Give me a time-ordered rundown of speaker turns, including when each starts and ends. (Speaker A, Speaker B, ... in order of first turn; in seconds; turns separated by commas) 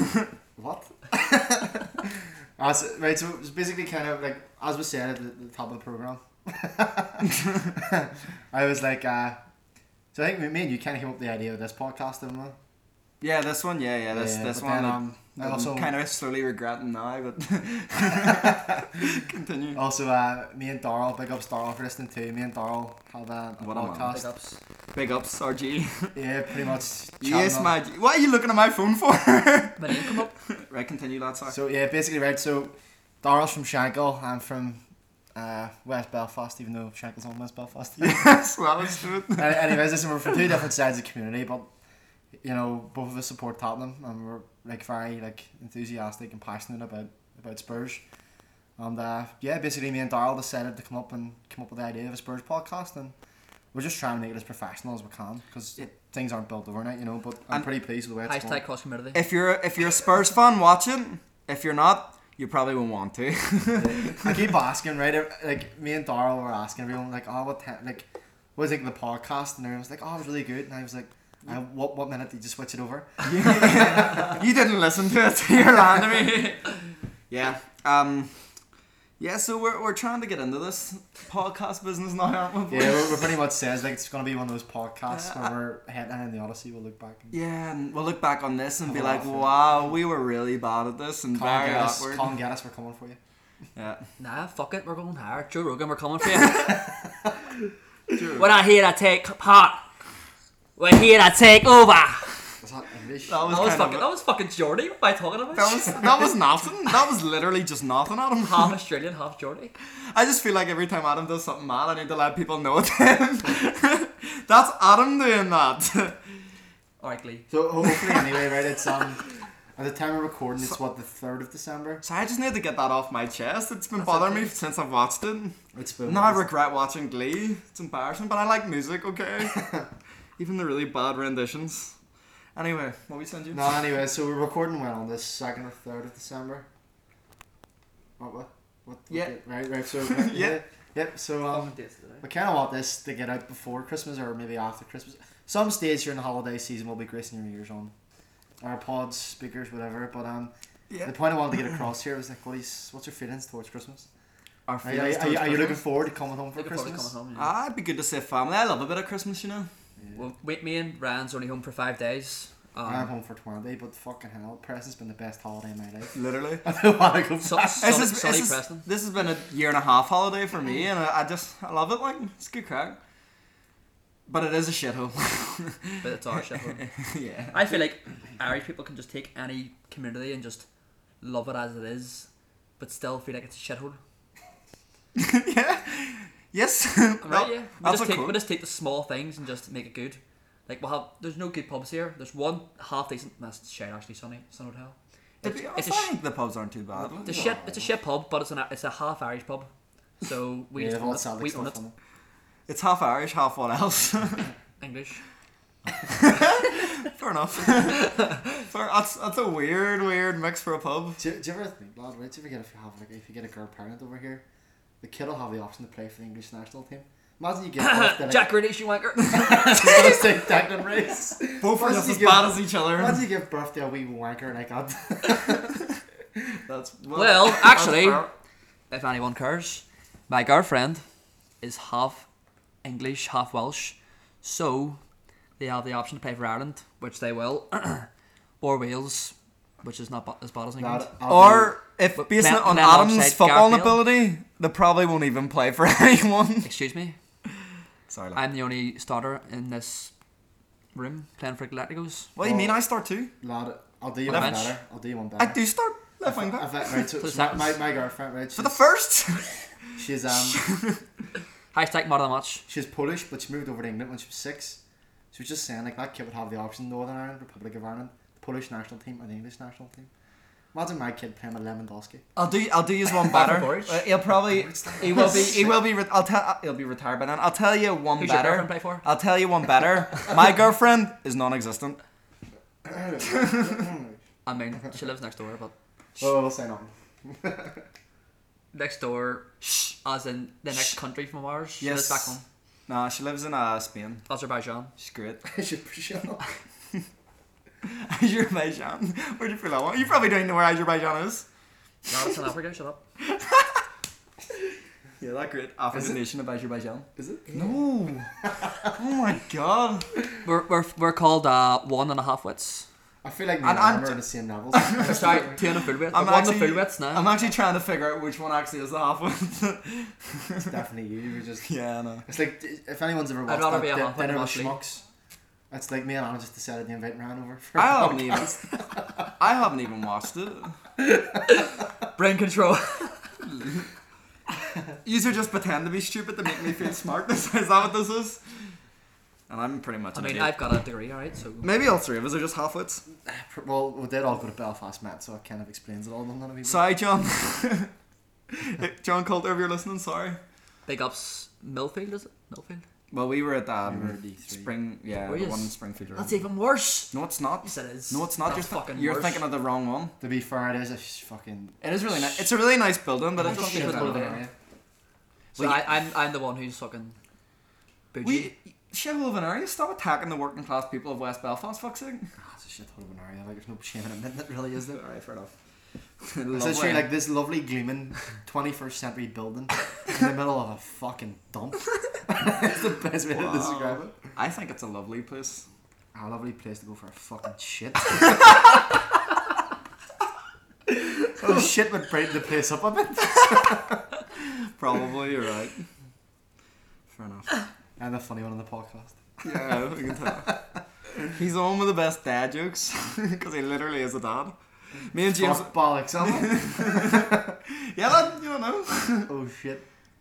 Speaker A: 0.6-9.4, Speaker A: 10.1-12.6, Speaker B: 13.2-19.8, Speaker A: 14.1-15.9, Speaker A: 19.7-24.3, Speaker B: 23.6-24.1, Speaker C: 24.1-24.6, Speaker B: 24.9-26.1, Speaker A: 26.1-27.7, Speaker B: 27.2-31.6, Speaker C: 29.8-30.3, Speaker A: 31.5-34.8, Speaker A: 35.3-38.2, Speaker B: 38.0-39.8, Speaker A: 39.4-41.7, Speaker A: 42.4-48.0, Speaker A: 48.8-53.1, Speaker A: 53.7-58.6, Speaker C: 58.2-59.2, Speaker B: 59.1-64.4, Speaker A: 63.7-74.4, Speaker B: 73.2-76.7, Speaker B: 77.3-78.3, Speaker B: 79.2-83.3, Speaker A: 82.7-87.3, Speaker B: 85.1-85.5, Speaker B: 87.3-92.3, Speaker A: 88.8-89.8, Speaker A: 91.3-93.2, Speaker B: 93.8-94.0, Speaker C: 94.2-96.8, Speaker B: 98.1-98.5, Speaker C: 98.3-99.8, Speaker C: 100.8-102.3, Speaker A: 102.6-103.7, Speaker B: 103.3-104.1, Speaker C: 103.5-106.1, Speaker B: 105.5-108.8, Speaker C: 108.4-109.7, Speaker B: 110.1-116.2, Speaker C: 117.0-117.5, Speaker A: 117.5-119.2, Speaker A: 119.8-122.0, Speaker B: 122.0-129.7, Speaker A: 124.1-124.4, Speaker A: 125.7-126.5, Speaker A: 129.5-129.8, Speaker B: 130.4-131.9, Speaker B: 132.6-133.8, Speaker A: 133.5-136.7, Speaker A: 138.2-147.9, Speaker B: 139.1-139.3, Speaker B: 139.9-140.6, Speaker C: 141.5-142.2, Speaker A: 148.6-150.5, Speaker B: 150.9-151.1, Speaker A: 151.0-154.1, Speaker B: 154.7-155.8, Speaker A: 154.8-157.1, Speaker C: 156.5-157.5, Speaker B: 157.3-159.7, Speaker C: 160.1-163.1, Speaker A: 162.8-167.9, Speaker B: 166.1-166.6, Speaker C: 167.4-168.8, Speaker B: 167.8-173.0, Speaker B: 174.3-176.1, Speaker C: 176.0-176.8, Speaker B: 176.7-177.6, Speaker C: 177.5-180.7, Speaker C: 181.2-182.3, Speaker C: 182.8-184.0, Speaker B: 185.1-188.4, Speaker C: 187.2-196.1, Speaker B: 195.4-197.4, Speaker A: 197.0-197.9, Speaker C: 197.2-199.7, Speaker C: 200.2-201.8, Speaker A: 200.8-201.9, Speaker B: 202.7-204.5, Speaker C: 204.8-205.2, Speaker B: 205.9-211.2, Speaker C: 208.0-208.4, Speaker A: 211.2-214.4, Speaker A: 215.0-218.5, Speaker C: 217.8-220.1, Speaker A: 219.2-225.8, Speaker B: 221.6-223.2, Speaker B: 226.7-228.3, Speaker C: 227.1-228.2, Speaker C: 228.9-231.0, Speaker C: 231.6-232.2, Speaker C: 232.8-235.0, Speaker C: 235.6-238.1, Speaker C: 238.6-241.1, Speaker A: 240.8-241.7, Speaker B: 241.3-246.7, Speaker C: 242.2-244.0, Speaker C: 246.6-247.2, Speaker B: 248.1-248.4, Speaker C: 248.3-250.1, Speaker C: 250.9-252.3, Speaker B: 252.3-253.3, Speaker A: 252.4-252.8, Speaker A: 253.4-255.6, Speaker B: 254.3-254.7, Speaker C: 254.3-254.7, Speaker B: 255.4-257.1, Speaker A: 256.2-258.8, Speaker C: 257.2-257.7, Speaker B: 258.6-259.7, Speaker A: 260.0-260.6, Speaker B: 260.3-261.0, Speaker C: 261.7-262.6, Speaker A: 262.7-264.8, Speaker A: 265.3-270.1, Speaker A: 270.7-272.2, Speaker B: 272.4-282.0, Speaker C: 273.2-274.1, Speaker A: 274.5-275.7, Speaker C: 275.0-275.6, Speaker C: 278.2-279.0, Speaker A: 282.8-284.2, Speaker B: 283.2-283.8, Speaker C: 284.4-285.7, Speaker A: 286.2-287.8, Speaker C: 288.7-292.4, Speaker B: 291.8-294.2, Speaker C: 294.3-294.9, Speaker B: 295.0-295.4, Speaker A: 295.4-296.4, Speaker B: 297.8-301.4, Speaker C: 302.1-303.0, Speaker B: 303.2-303.8, Speaker B: 305.2-308.3, Speaker A: 305.9-306.2, Speaker A: 307.2-307.8, Speaker A: 308.4-308.9, Speaker B: 308.9-310.1, Speaker C: 310.4-312.9, Speaker A: 313.2-315.6, Speaker B: 313.6-314.2, Speaker B: 314.7-315.5, Speaker C: 315.0-317.3, Speaker B: 316.1-320.7, Speaker A: 320.7-321.7, Speaker B: 321.6-322.2, Speaker A: 322.2-325.0, Speaker C: 323.5-324.8, Speaker A: 325.7-329.2, Speaker B: 327.8-328.7, Speaker B: 329.3-330.8, Speaker C: 331.0-333.3, Speaker B: 333.6-333.8, Speaker B: 335.0-338.4, Speaker B: 339.5-340.6, Speaker C: 340.1-341.7, Speaker B: 341.6-343.0, Speaker A: 343.2-346.8, Speaker B: 346.6-347.9, Speaker B: 348.5-350.4, Speaker C: 350.9-352.8, Speaker B: 353.1-356.4, Speaker A: 353.8-354.7, Speaker C: 355.2-357.1, Speaker B: 357.1-360.1, Speaker C: 357.6-359.4, Speaker A: 360.2-362.5, Speaker B: 361.8-364.4, Speaker A: 363.4-364.5, Speaker C: 363.4-364.4, Speaker B: 365.5-365.9, Speaker C: 365.5-367.1, Speaker C: 368.1-368.5, Speaker B: 368.2-372.3, Speaker A: 372.4-375.0, Speaker B: 374.9-375.5, Speaker B: 376.2-377.1, Speaker A: 376.5-384.1, Speaker B: 383.3-385.6, Speaker A: 386.1-388.8, Speaker A: 390.9-394.0, Speaker B: 394.4-395.9, Speaker B: 397.1-397.5, Speaker A: 398.0-399.7, Speaker B: 399.4-400.5, Speaker A: 400.3-400.6, Speaker B: 401.3-404.6, Speaker B: 405.1-409.3, Speaker A: 405.3-407.5, Speaker A: 409.3-409.8